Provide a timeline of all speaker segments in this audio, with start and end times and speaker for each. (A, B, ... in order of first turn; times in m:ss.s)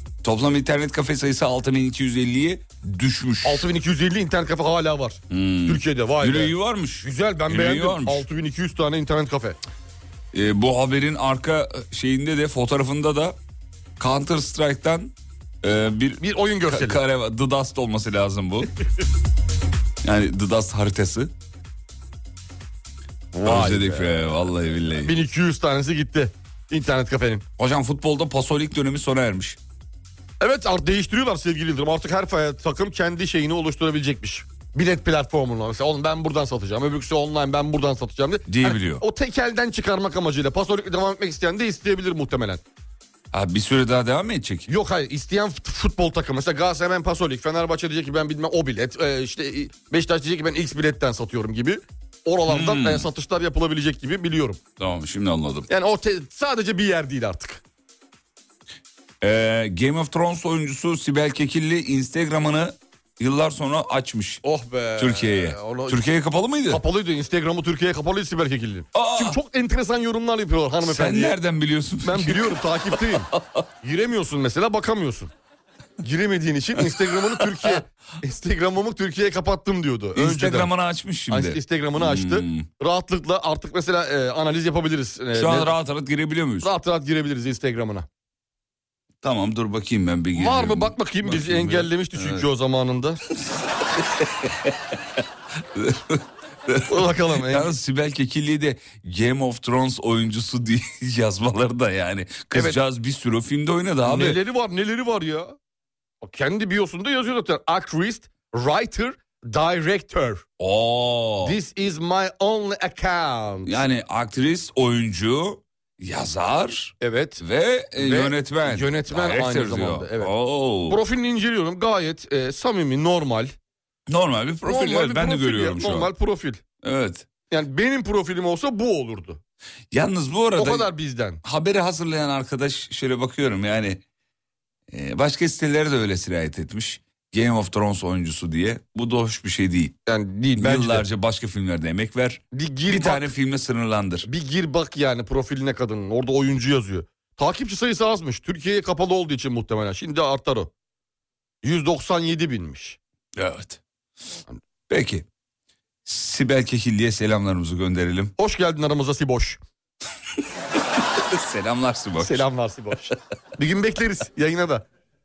0:00.2-0:03.7 A
0:03.4-0:09.6 B
0:05.3-0:08.2 A
0:10.3-0:13.4 A
0:14.0-0:18.7 A
0:16.2-0:17.0 B
0:20.0-0:21.3 A
0:23.3-0:24.3 B
0:23.4-0:25.1 A
0:25.0-0:27.4 B
0:27.6-0:29.6 A
0:30.4-0:42.6 B
0:38.5-0:39.0 A
0:43.3-0:44.7 A
0:44.7-0:54.6 B
0:52.5-0:53.1 A
0:54.8-0:55.7 A
0:55.7-0:57.6 B
0:59.2-1:04.4 A
1:04.4-1:06.0 B
1:05.0-1:06.8 A
1:06.7-1:11.4 B
1:08.9-1:09.4 A
1:10.8-1:13.6 A
1:12.0-1:13.3 B
1:13.8-1:15.3 B
1:16.0-1:20.7 B
1:20.2-1:22.7 A
1:21.3-1:25.7 B
1:25.3-1:26.7 A
1:26.6-1:28.1 B
1:29.2-1:32.5 A
1:30.4-1:33.2 B
1:34.2-1:34.5 A
1:35.8-1:44.4 A
1:36.9-1:37.7 B
1:42.5-1:42.8 B
1:44.0-1:45.6 B
1:46.2-1:50.4 B
1:50.6-1:51.6 A
1:51.4-1:53.8 B
1:53.7-2:01.0 A
1:57.0-1:57.4 B
1:58.0-2:00.3 B
2:00.9-2:03.5 B
2:04.1-2:06.1 A
2:04.7-2:06.6 B
2:06.8-2:07.3 A
2:07.5-2:09.4 B
2:09.9-2:10.9 A
2:10.6-2:11.4 B
2:11.4-2:14.0 A
2:14.9-2:20.0 A
2:20.1-2:21.0 B
2:20.6-2:24.3 A
2:22.5-2:23.3 B
2:24.3-2:30.7 B
2:31.6-2:33.0 B
2:33.4-2:33.8 A
2:34.9-2:35.2 A
2:36.0-2:38.3 A
2:38.4-2:39.6 B
2:41.3-2:42.5 A
2:42.2-2:44.8 B